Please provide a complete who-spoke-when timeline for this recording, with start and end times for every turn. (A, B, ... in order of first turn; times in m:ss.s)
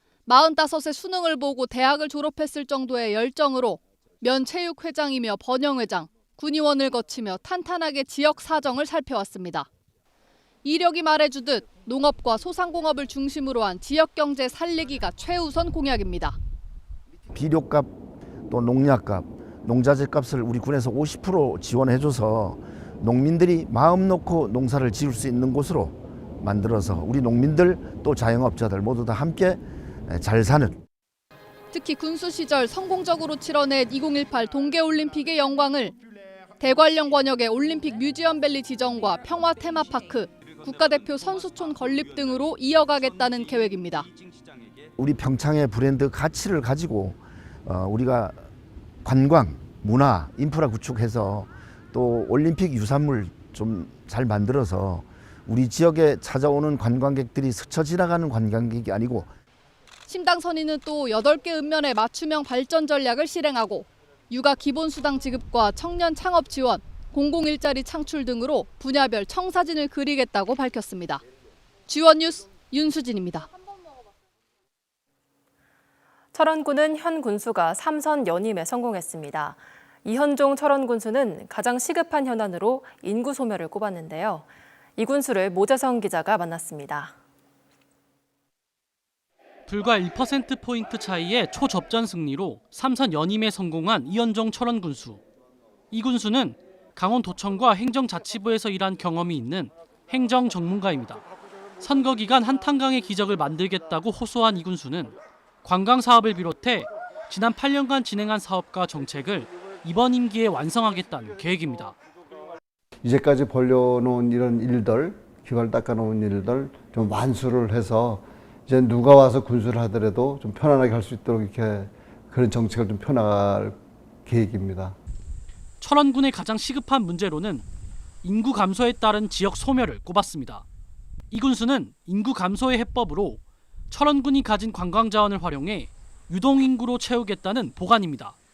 0:00.3-0:09.7 A
0:10.6-0:16.4 A
0:17.3-0:17.9 B
0:18.5-0:30.8 B
0:31.7-0:36.0 A
0:36.6-0:44.1 A
0:45.0-0:48.4 B
0:49.0-0:59.3 B
1:00.1-1:11.2 A
1:11.9-1:13.5 A
1:16.3-1:27.1 C
1:29.7-1:35.2 D
1:35.9-1:41.2 D
1:41.8-1:52.0 D
1:53.0-2:05.0 E
2:05.8-2:07.6 D
2:08.2-2:10.6 D
2:11.3-2:18.4 D